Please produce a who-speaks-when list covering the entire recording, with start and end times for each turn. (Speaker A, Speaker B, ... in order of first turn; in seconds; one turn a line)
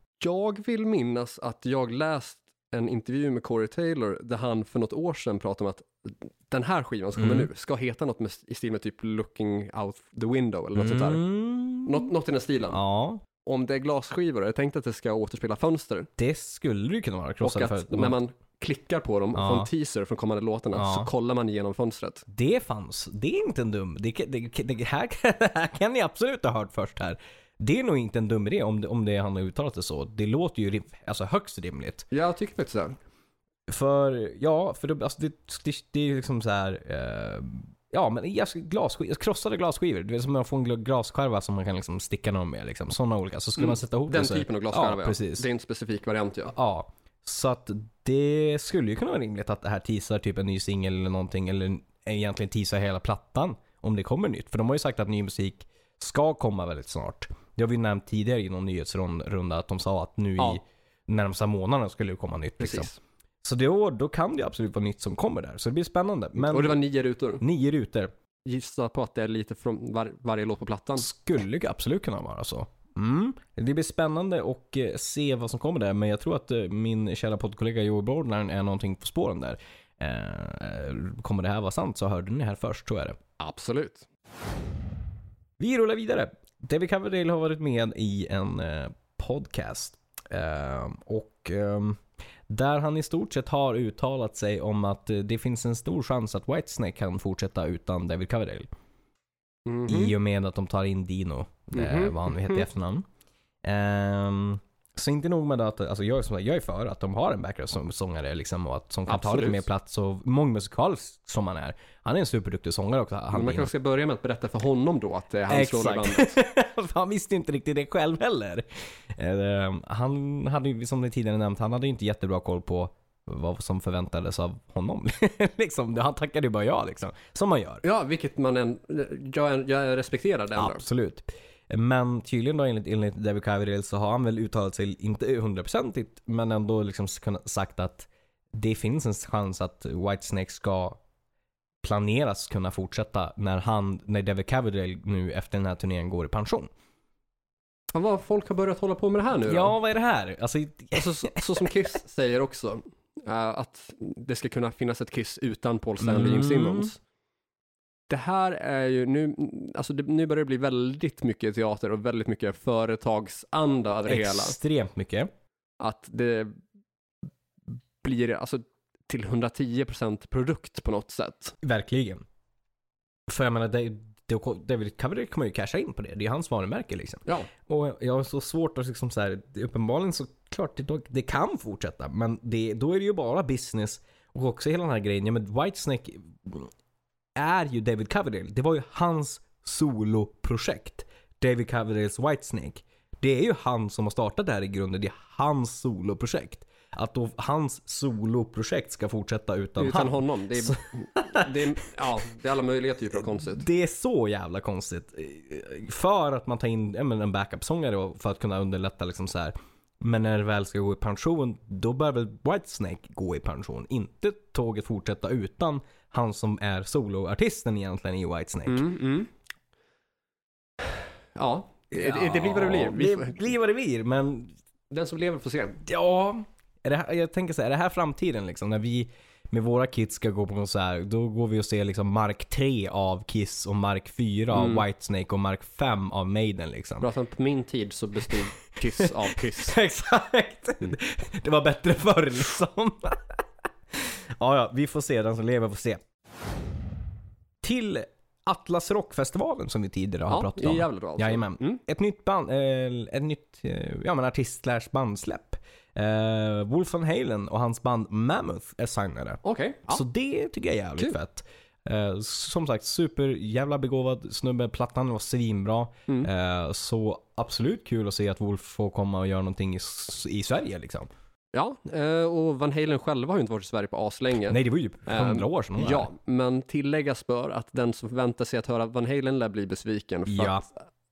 Speaker A: 0.2-11.2
Speaker B: 7.2-7.5
Speaker B: 10.8-12.1
Speaker A: 11.8-12.8
Speaker B: 12.7-13.2
Speaker A: 13.4-16.1
Speaker B: 16.2-18.2
Speaker A: 17.4-22.2
Speaker B: 19.4-19.7
Speaker B: 20.8-21.1
Speaker B: 22.3-32.1
Speaker A: 32.1-33.0
Speaker B: 33.7-45.5
Speaker A: 43.6-46.5
Speaker B: 46.5-62.9
Speaker A: 62.6-63.0
Speaker B: 63.4-66.8
Speaker A: 66.4-67.4
Speaker B: 67.4-68.1
Speaker A: 68.5-71.1
Speaker B: 71.0-83.2
Speaker A: 83.4-84.1
Speaker B: 85.6-98.7
Speaker A: 99.7-100.1
Speaker B: 99.9-103.1
Speaker A: 101.7-102.6
Speaker B: 103.6-113.7
Speaker A: 109.1-109.6
Speaker A: 113.3-116.3
Speaker B: 115.5-127.8
Speaker A: 127.8-130.8
Speaker B: 130.6-141.0
Speaker B: 141.8-146.7
Speaker A: 147.9-149.8
Speaker B: 149.5-151.7
Speaker A: 150.9-157.0
Speaker B: 156.0-156.9
Speaker A: 158.1-164.6
Speaker B: 164.1-165.3
Speaker A: 165.8-166.5
Speaker A: 168.0-171.6
Speaker B: 171.6-172.2
Speaker B: 173.3-186.7
Speaker B: 187.4-201.9
Speaker A: 199.8-203.7
Speaker B: 203.1-218.9
Speaker A: 218.7-219.3
Speaker A: 221.4-223.4
Speaker B: 221.9-224.5
Speaker A: 224.9-225.8
Speaker B: 225.8-237.1
Speaker A: 234.5-234.8
Speaker A: 237.0-239.8
Speaker B: 239.0-246.0
Speaker B: 247.6-271.1
Speaker A: 250.3-251.8
Speaker A: 259.4-260.0
Speaker A: 271.5-280.7
Speaker B: 274.5-276.1
Speaker B: 280.3-280.6